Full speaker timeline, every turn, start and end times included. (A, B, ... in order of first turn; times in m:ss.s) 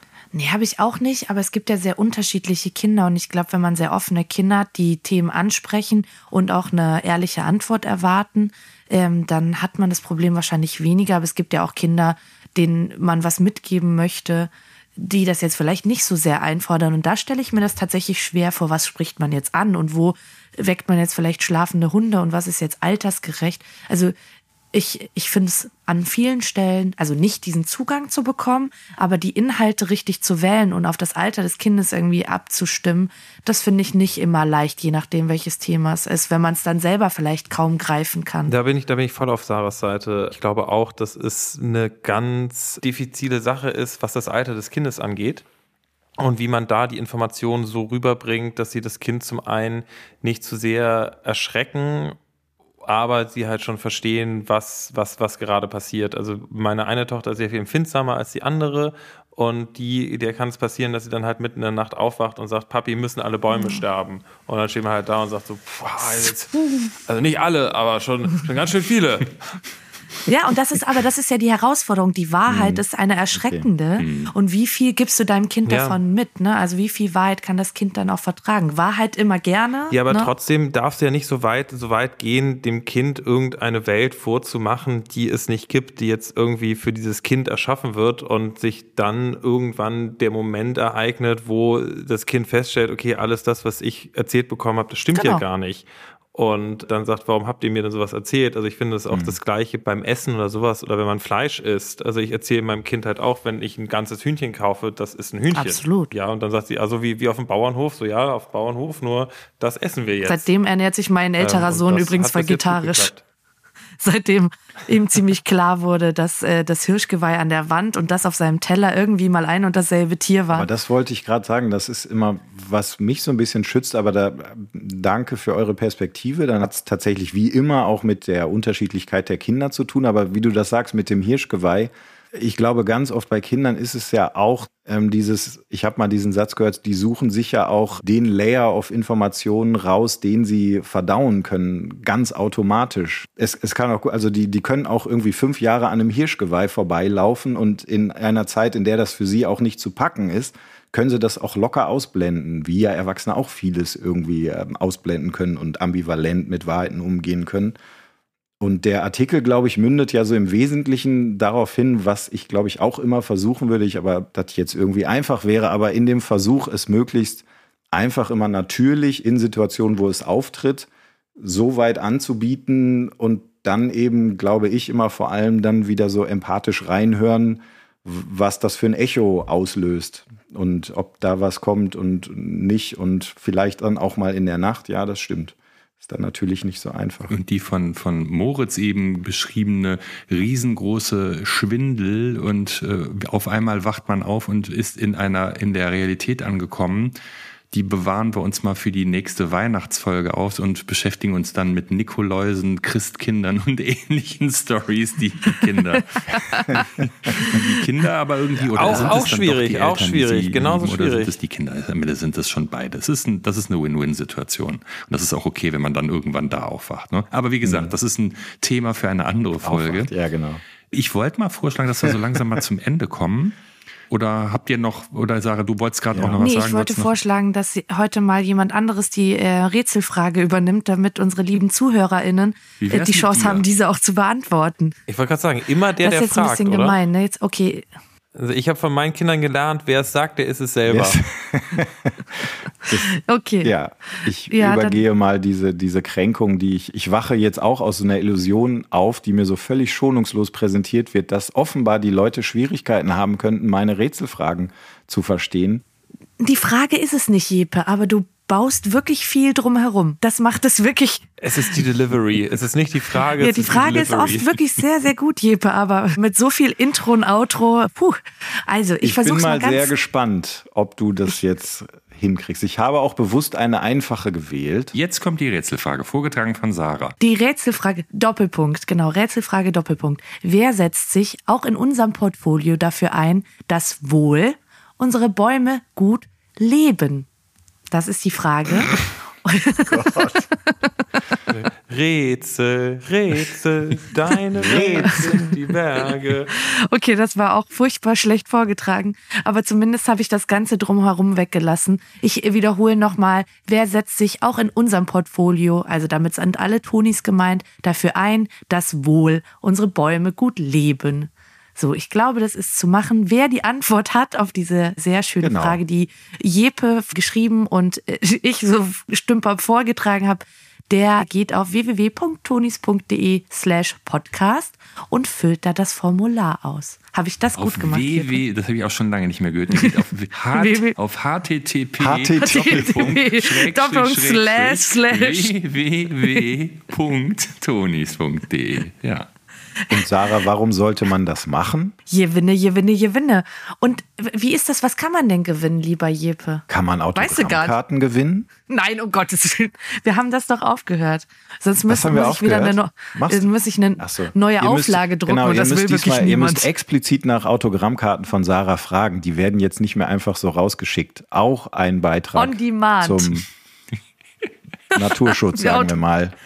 0:00.3-0:24.1 A
0:24.7-0:38.5 A
0:38.5-0:45.4 B
0:46.2-0:52.2 B
0:52.9-1:09.4 B
1:03.6-1:03.8 A
1:10.3-1:20.3 A
1:12.5-1:12.8 C
1:13.3-1:13.7 C
1:14.0-1:14.3 D
1:15.7-1:16.0 B
1:19.9-1:50.5 B
1:35.1-1:35.4 A
1:39.1-1:39.4 C
1:45.5-1:46.1 A
1:50.3-1:53.1 A
1:51.4-1:53.2 B
1:54.0-2:00.7 A
2:00.5-2:37.8 C
2:38.6-2:50.9 C
2:51.4-3:07.4 C
3:07.3-3:17.2 D
3:17.7-3:40.1 D
3:26.2-3:27.6 A
3:26.3-3:27.1 C
3:28.6-3:29.2 C
3:28.8-3:31.3 B
3:37.6-3:37.9 C
3:39.6-3:40.6 C
3:40.9-3:43.6 D
3:44.1-3:47.1 D
3:46.1-3:46.4 C
3:46.4-3:55.0 A
3:52.8-3:53.6 D
3:55.1-3:57.0 B
3:56.0-3:57.9 A
3:58.4-4:01.2 B
4:00.9-4:03.1 C
4:03.2-4:05.0 A
4:03.6-4:15.8 C
4:16.4-4:21.8 A
4:21.4-4:24.6 B
4:23.4-4:29.9 A
4:29.0-4:34.9 C
4:34.9-4:37.2 D
4:37.2-4:47.3 A
4:47.9-4:51.0 A
4:49.9-4:50.5 C
4:51.5-4:56.5 B
4:54.6-4:55.5 C
4:55.0-4:55.5 A
4:56.5-5:28.4 A
5:15.4-5:15.8 C
5:27.6-5:39.3 D
5:30.5-5:31.0 A
5:32.0-5:33.0 C
5:32.4-5:35.5 A
5:39.9-5:42.0 C
5:42.1-5:47.8 A
5:46.7-5:48.5 C
5:48.7-5:56.7 A
5:51.9-6:03.4 C
6:02.4-6:03.3 A
6:05.0-6:06.4 C
6:05.6-6:06.0 A